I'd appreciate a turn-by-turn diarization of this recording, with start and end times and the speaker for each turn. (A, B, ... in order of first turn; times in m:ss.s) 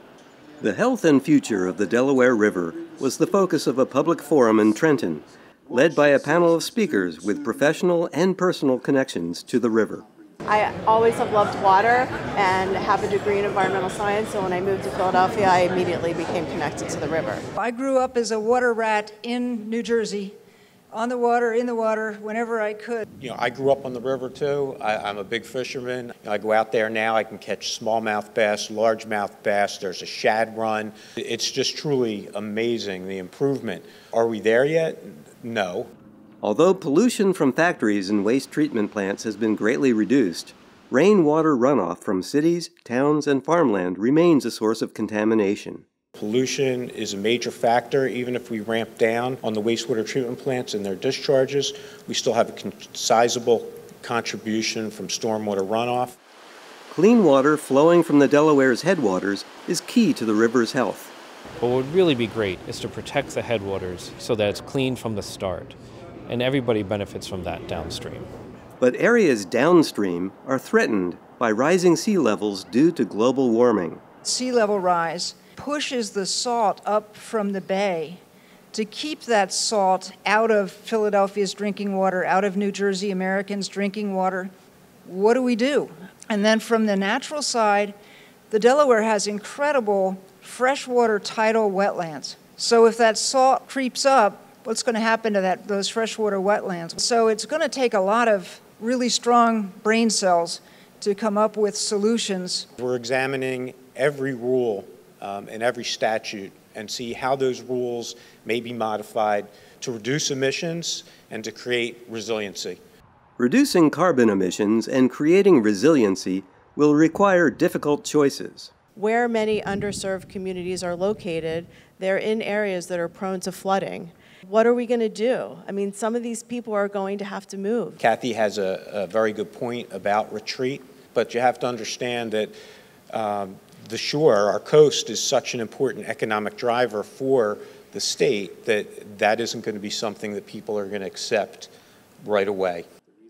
0:00.6-0:10.0 A
0:10.5-0:17.4 B
0:17.6-0:20.3 C
0:20.9-0:23.0 C
0:23.2-0:35.9 D
0:36.4-0:45.8 A
0:46.2-0:56.2 D
0:56.9-1:01.1 A
1:01.6-1:05.8 E
1:06.3-1:08.2 E
1:08.8-1:14.0 A
1:14.2-1:24.5 C
1:25.0-1:27.9 C
1:28.5-1:42.7 C
1:42.8-1:52.8 D
1:53.4-1:58.7 A
1:59.0-2:08.0 B
2:08.0-2:12.5 D
2:13.1-2:21.7 D
2:22.2-2:22.8 D